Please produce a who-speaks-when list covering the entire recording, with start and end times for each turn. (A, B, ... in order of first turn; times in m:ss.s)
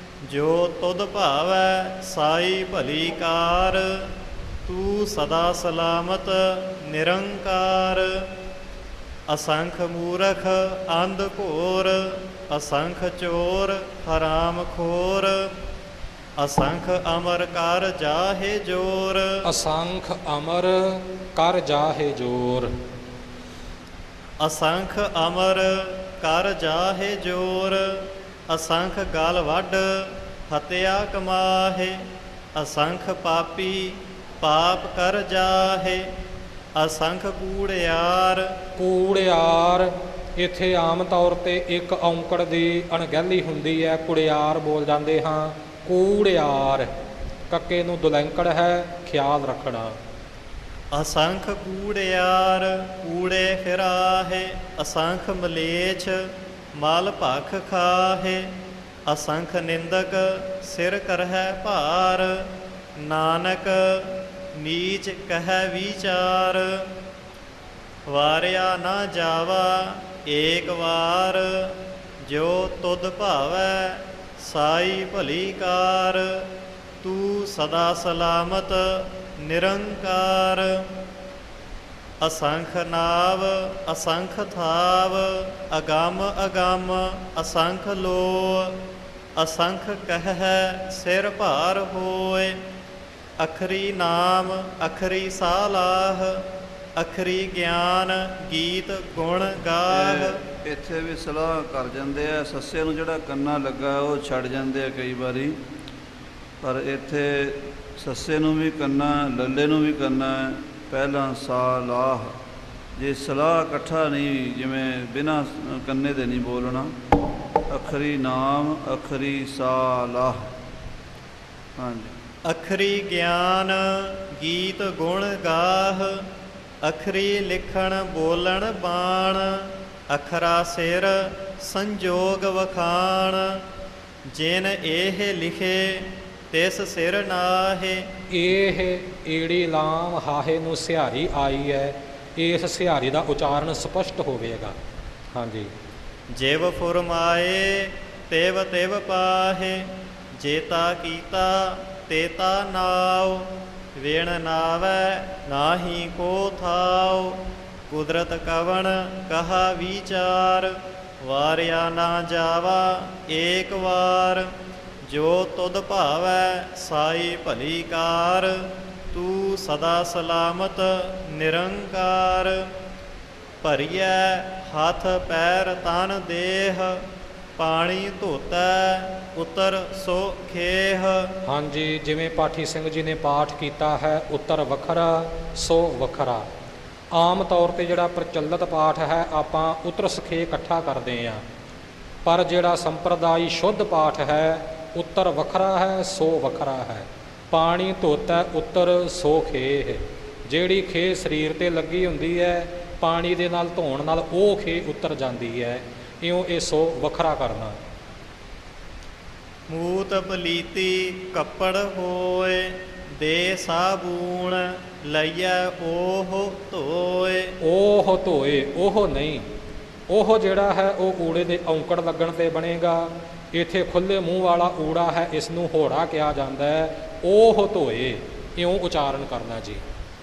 0:00.3-0:04.1 A
0:04.7-0:08.3 A
0:09.3-0:15.5 A
0:16.4-0:19.5 A
0:19.4-0:22.7 B
0:24.4-0:32.0 A
0:32.5-0:36.1 A
0:36.7-0:38.5 A
0:38.8-0:46.9 B
0:47.5-0:50.0 B
0:50.9-0:58.5 A
0:59.0-1:06.9 A
1:08.1-1:16.5 A
1:17.0-1:20.9 A
1:22.2-1:28.8 A
1:29.4-1:32.6 A
1:33.4-1:36.4 A
1:37.0-1:40.4 A
1:39.9-1:45.6 C
1:46.6-1:52.3 C
1:53.0-1:56.9 C
1:57.7-2:00.4 C
2:01.8-2:02.1 C
2:02.4-2:06.3 A
2:06.8-2:13.6 A
2:14.3-2:18.1 A
2:18.3-2:24.8 B
2:25.3-2:25.7 B
2:26.3-2:44.5 A
2:45.0-2:52.7 A
2:53.6-2:57.0 A
2:57.6-3:01.3 A
3:01.4-3:06.4 B
3:07.1-3:11.4 B
3:12.2-3:27.8 B
3:29.7-3:37.6 A
3:37.6-3:39.5 B
3:40.1-3:49.8 B